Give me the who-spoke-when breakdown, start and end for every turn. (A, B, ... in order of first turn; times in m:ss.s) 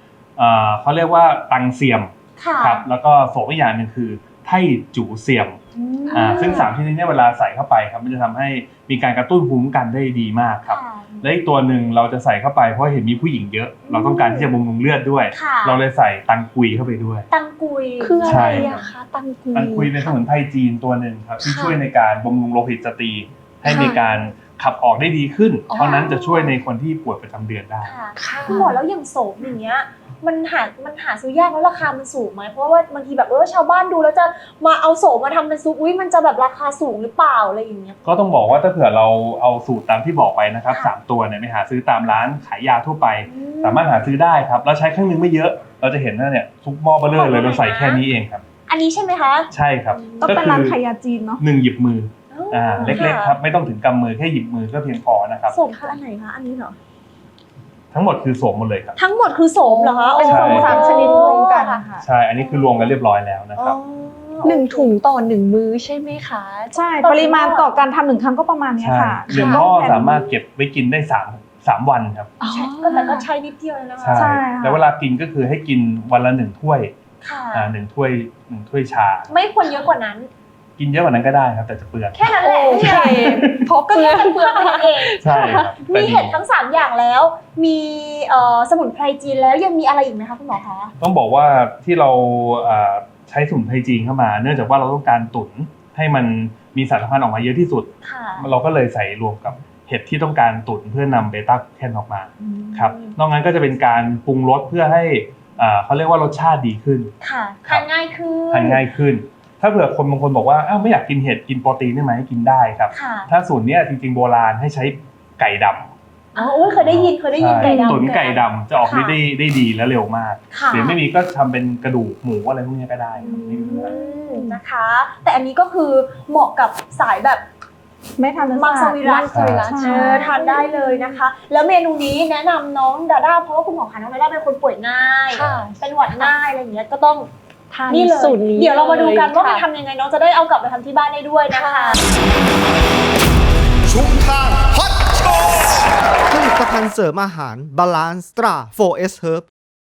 0:00.4-0:05.6 A
0:02.4-0:02.8 B
0:05.8-0:06.7 B
0:06.1-0:06.7 C
0:06.1-0:17.3 A
0:10.7-0:11.2 B
0:13.9-0:14.5 B
0:15.3-0:15.8 B
0:17.3-0:18.9 B
0:18.0-0:20.1 C
0:18.2-0:18.8 A
0:19.5-0:27.9 A
0:21.4-0:21.8 C
0:23.6-0:24.0 C
0:23.8-0:24.2 B
0:25.7-0:26.6 C
0:25.8-0:26.1 B
0:27.8-0:38.0 B
0:28.2-0:28.8 C
0:38.0-0:48.4 A
0:43.2-0:43.9 B
0:47.1-0:48.0 B
0:48.7-0:50.4 B
0:49.5-0:50.8 A
0:50.2-0:51.4 D
0:51.4-0:55.6 A
0:52.3-0:53.4 B
0:52.8-0:53.2 D
0:55.5-0:56.8 B
0:55.6-0:56.0 C
0:57.9-0:59.0 A
0:59.0-1:01.8 B
0:59.6-1:01.9 C
1:00.2-1:02.1 D
1:00.2-1:00.9 A
1:02.0-1:03.8 A
1:02.4-1:02.9 B
1:03.6-1:04.9 B
1:04.4-1:06.7 C
1:06.7-1:10.1 D
1:07.0-1:07.8 B
1:08.8-1:12.3 A
1:09.3-1:09.6 C
1:09.4-1:10.3 B
1:12.4-1:13.3 C
1:12.5-1:14.4 B
1:14.0-1:16.9 A
1:14.1-1:14.9 D
1:17.2-1:17.7 B
1:17.5-1:19.3 A
1:19.3-1:20.3 B
1:20.8-1:22.3 A
1:22.2-1:30.9 B
1:22.4-1:25.7 C
1:22.6-1:23.6 D
1:25.2-1:26.4 A
1:31.0-1:47.1 A
1:38.0-1:38.5 B
1:42.4-1:43.2 B
1:47.2-1:48.8 B
1:48.5-1:55.9 A
1:52.9-1:53.3 B
1:56.3-1:59.2 B
1:56.4-1:56.7 C
1:56.8-2:03.9 A
1:57.6-1:58.0 C
2:00.5-2:01.0 B
2:03.2-2:04.5 D
2:03.2-2:07.4 B
2:08.2-2:10.3 D
2:08.5-2:17.3 B
2:09.0-2:11.2 C
2:09.3-2:09.7 A
2:15.3-2:16.4 C
2:17.7-2:19.6 C
2:17.9-2:22.0 B
2:21.5-2:22.0 C
2:23.9-2:29.4 E